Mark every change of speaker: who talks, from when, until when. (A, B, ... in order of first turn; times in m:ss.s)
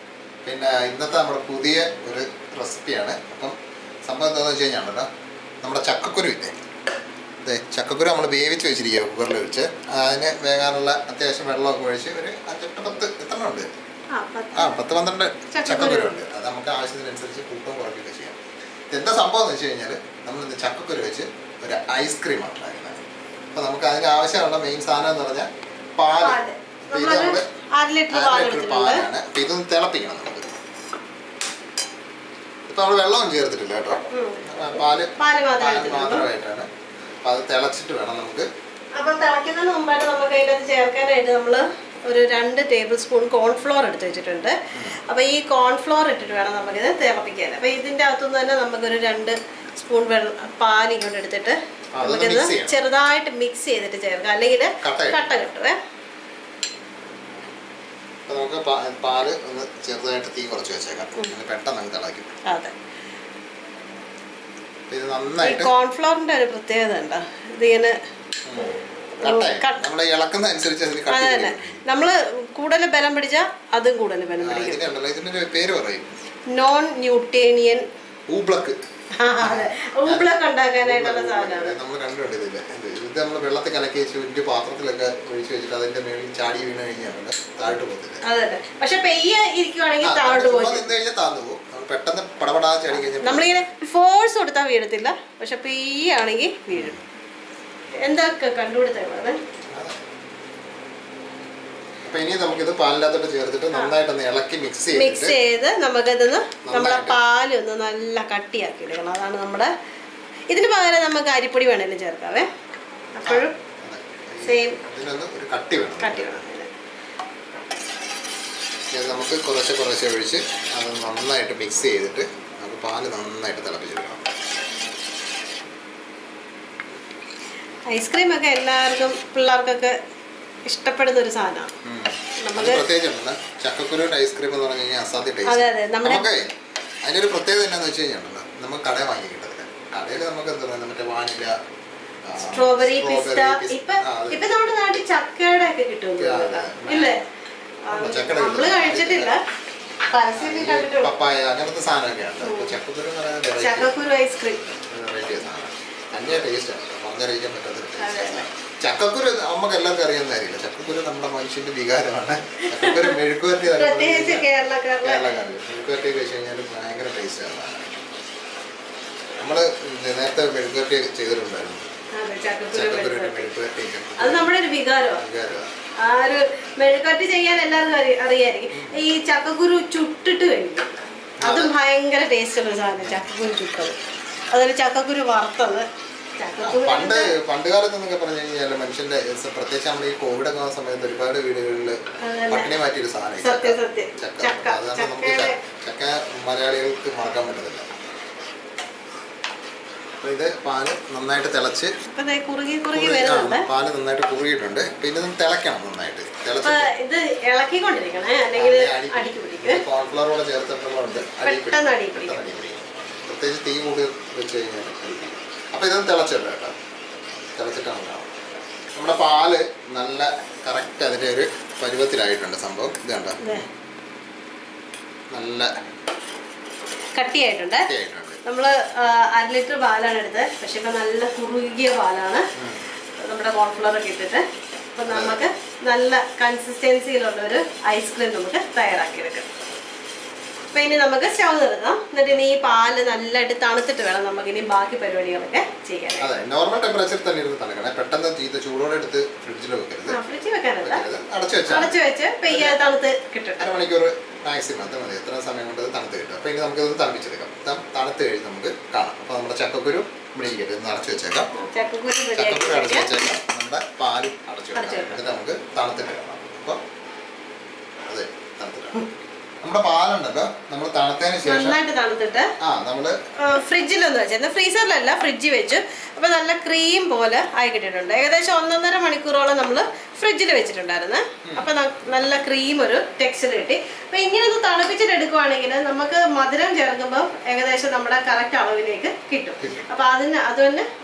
0:00.4-0:03.6 A
0:04.1-0:05.1 A
0:05.6-0:06.5 A
0:07.4-0:13.7 A
0:14.1-0:14.8 B
0:14.5-0:18.4 A
0:15.5-0:16.2 B
0:18.9-0:23.0 A
0:23.5-0:27.4 A
0:26.2-0:29.0 B
0:28.1-0:30.4 A
0:32.7-0:36.7 A
0:34.1-0:34.4 B
0:35.2-0:36.3 B
0:37.2-0:38.5 A
0:39.0-0:44.6 B
0:44.7-0:45.0 A
0:45.1-0:55.8 B
0:51.9-0:52.8 A
0:54.8-0:55.3 A
0:58.3-1:02.3 A
1:02.4-1:02.7 B
1:04.9-1:05.7 A
1:05.4-1:08.0 B
1:08.4-1:11.8 A
1:09.2-1:09.8 B
1:11.1-1:14.8 B
1:14.4-1:16.2 A
1:16.5-1:17.8 B
1:18.3-1:18.8 A
1:19.2-1:21.8 B
1:19.4-1:20.3 A
1:20.8-1:28.2 A
1:28.2-1:30.9 B
1:30.0-1:33.6 A
1:33.2-1:37.0 B
1:36.7-1:37.0 A
1:38.0-1:39.4 B
1:42.0-1:45.3 A
1:44.9-1:49.7 B
1:46.6-1:47.2 A
1:50.5-1:52.5 B
1:53.1-1:53.5 B
1:53.2-1:56.4 A
1:54.4-1:54.8 B
1:56.0-1:56.7 B
1:58.9-2:04.2 A
2:07.9-2:09.9 B
2:10.7-2:11.7 B
2:11.8-2:16.5 A
2:12.4-2:12.8 B
2:15.5-2:16.2 B
2:17.0-2:21.5 A
2:22.2-2:24.4 A
2:22.5-2:27.2 B
2:26.2-2:27.1 A
2:27.9-2:29.4 B
2:27.9-2:29.3 A
2:30.1-2:31.1 B
2:30.3-2:33.9 A
2:32.4-2:32.8 B
2:33.6-2:34.6 B
2:34.9-2:44.4 A
2:38.0-2:38.4 B
2:42.7-2:43.2 B
2:43.7-2:45.2 B
2:45.0-2:47.9 A
2:49.4-2:51.8 A
2:52.2-2:53.5 B
2:52.7-2:54.5 A
2:54.2-2:55.2 B
2:55.2-2:55.7 A
2:56.0-3:04.0 B
2:58.7-2:59.0 A
3:01.4-3:01.7 A
3:03.0-3:03.3 A
3:04.5-3:05.8 B
3:06.4-3:07.3 B
3:06.6-3:12.0 A
3:12.2-3:12.7 B
3:12.5-3:17.8 A
3:13.4-3:15.6 B
3:20.2-3:21.9 A
3:22.1-3:23.6 B
3:22.9-3:26.9 A
3:26.6-3:29.8 B
3:28.5-3:36.7 A
3:31.4-3:32.4 B
3:37.5-3:38.4 A
3:38.9-3:43.6 A
3:45.3-3:45.7 A
3:47.1-3:47.9 B
3:47.8-3:48.4 A
3:48.4-3:52.4 B
3:52.6-3:52.8 A
3:53.2-3:59.5 B
3:55.1-3:55.4 A
4:00.7-4:06.3 B
4:06.2-4:10.2 A
4:10.1-4:11.0 B
4:10.8-4:12.0 A
4:11.7-4:13.6 B
4:12.5-4:12.9 A
4:13.6-4:21.5 A
4:21.5-4:23.1 B
4:22.3-4:26.8 A
4:24.8-4:25.2 B
4:28.0-4:29.0 A
4:29.6-4:31.8 A
4:31.4-4:32.5 B
4:32.6-4:33.2 A
4:33.4-4:50.8 B
4:49.6-4:49.8 A